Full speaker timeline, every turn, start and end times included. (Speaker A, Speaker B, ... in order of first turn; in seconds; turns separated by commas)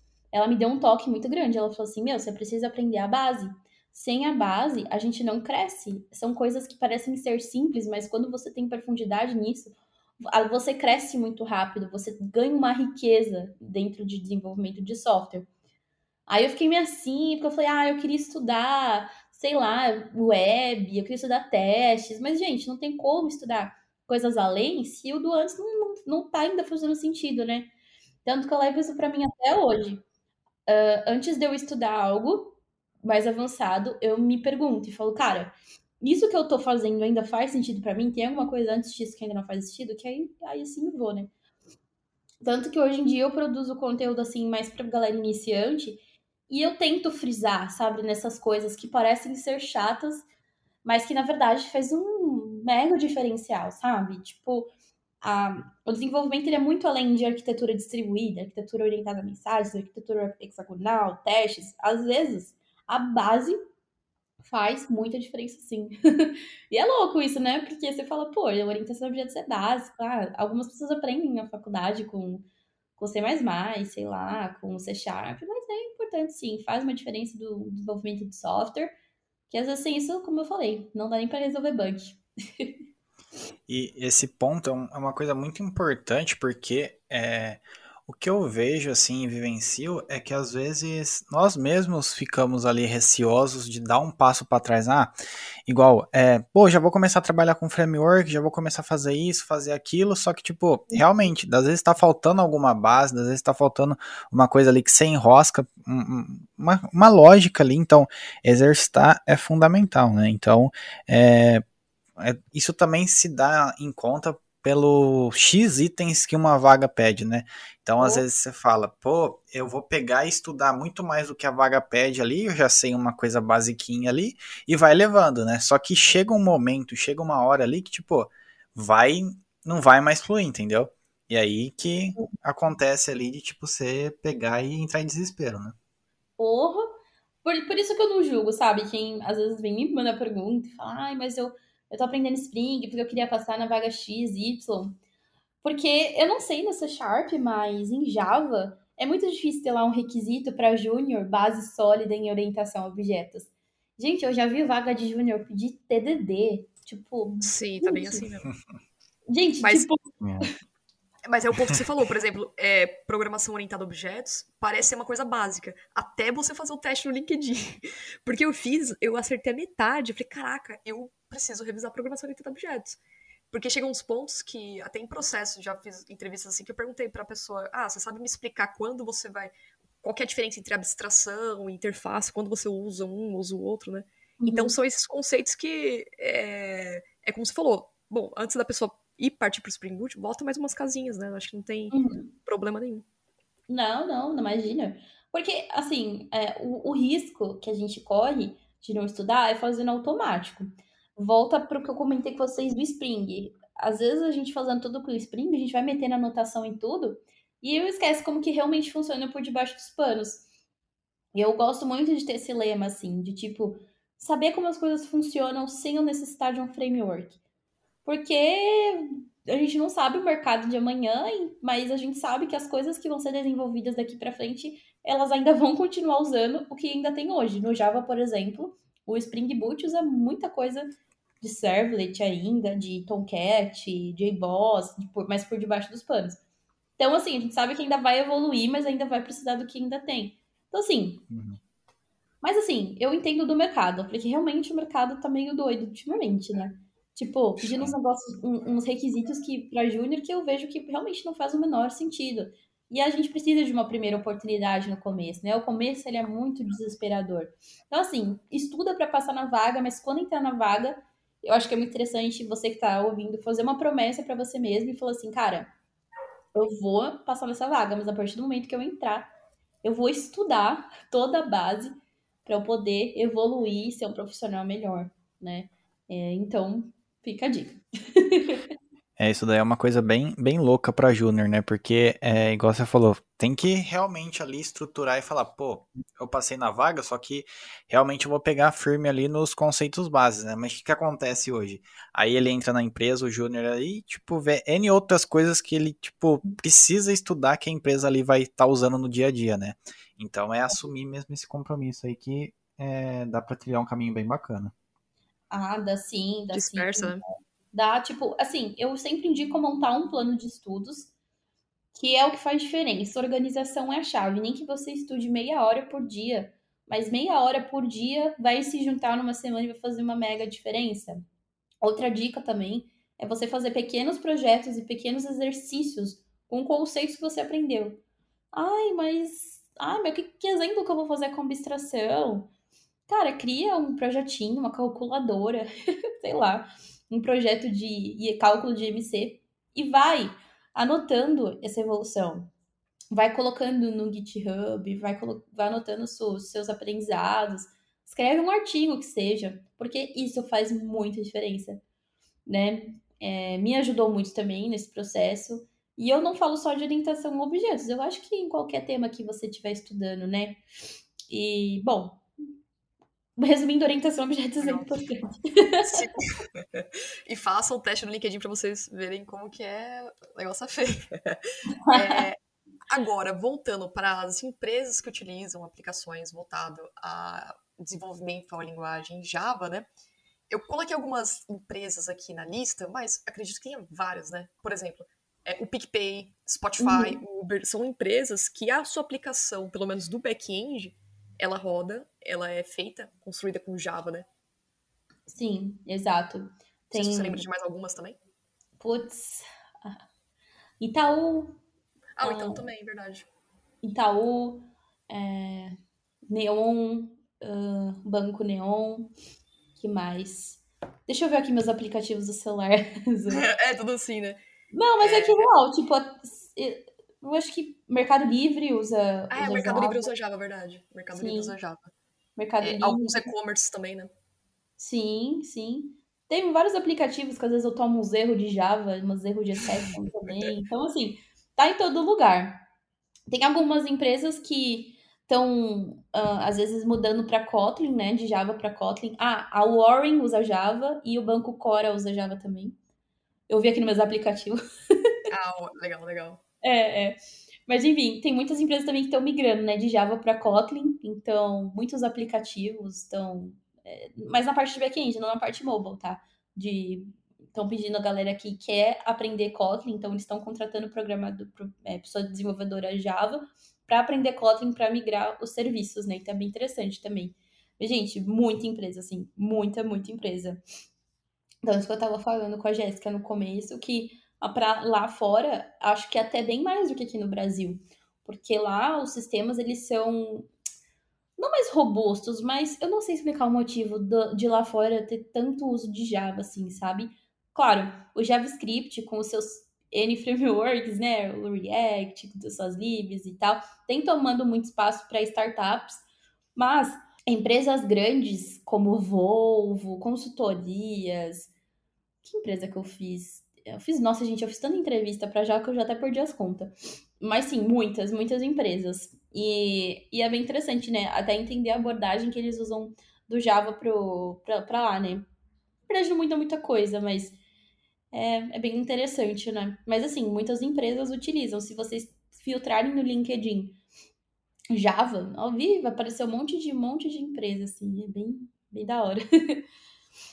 Speaker A: 0.3-9.7, Speaker A: 10.2-15.5, Speaker A: 16.3-27.7, Speaker A: 28.2-30.0, Speaker A: 30.7-41.3, Speaker A: 42.4-50.2, Speaker A: 50.8-54.7, Speaker A: 55.2-63.6, Speaker A: 64.4-72.5, Speaker A: 73.0-78.9, Speaker A: 79.5-82.7, Speaker B: 83.7-95.1, Speaker B: 95.7-111.6, Speaker B: 112.2-135.8, Speaker A: 136.4-144.9, Speaker A: 145.6-158.2, Speaker C: 157.4-158.5, Speaker A: 159.3-160.5, Speaker C: 159.6-159.9, Speaker B: 160.2-160.5, Speaker C: 161.3-173.0, Speaker C: 173.5-193.0, Speaker A: 184.4-184.7, Speaker A: 191.9-192.3, Speaker A: 193.7-210.4, Speaker A: 211.3-217.4, Speaker A: 218.1-230.9, Speaker A: 231.4-236.4, Speaker A: 237.0-241.2, Speaker B: 241.3-241.6, Speaker A: 242.4-265.7, Speaker A: 266.6-269.3, Speaker A: 269.8-271.9, Speaker A: 272.5-278.6, Speaker B: 279.2-304.7, Speaker A: 305.5-307.2, Speaker C: 306.5-307.2, Speaker A: 307.7-311.1, Speaker A: 311.9-321.2, Speaker A: 321.8-328.0, Speaker A: 328.5-332.5, Speaker A: 333.1-335.7, Speaker A: 336.2-342.5, Speaker A: 343.1-351.8, Speaker A: 352.5-360.6, Speaker A: 361.3-362.2, Speaker A: 363.4-366.1, Speaker C: 364.6-365.0, Speaker C: 365.9-371.4, Speaker A: 371.8-372.2, Speaker C: 371.9-372.4, Speaker C: 372.9-379.9, Speaker C: 380.5-394.3, Speaker A: 386.8-387.2, Speaker A: 395.3-397.4, Speaker C: 396.9-398.2, Speaker A: 398.8-400.0, Speaker A: 400.8-401.6, Speaker C: 402.2-403.3, Speaker A: 402.2-402.7, Speaker A: 403.8-405.8, Speaker A: 406.3-409.1, Speaker A: 409.8-413.5, Speaker C: 413.3-414.4, Speaker A: 414.7-420.1, Speaker C: 415.0-415.5, Speaker C: 419.3-421.9, Speaker A: 421.1-421.6, Speaker A: 422.4-423.3, Speaker C: 422.6-424.1, Speaker A: 424.8-432.6, Speaker A: 433.3-442.8, Speaker A: 443.5-445.1, Speaker C: 445.3-446.4, Speaker A: 446.6-470.6, Speaker A: 471.6-480.5, Speaker A: 481.4-496.0, Speaker A: 496.6-501.5, Speaker A: 502.2-515.2, Speaker A: 515.9-517.4, Speaker A: 518.1-523.8, Speaker A: 524.7-529.6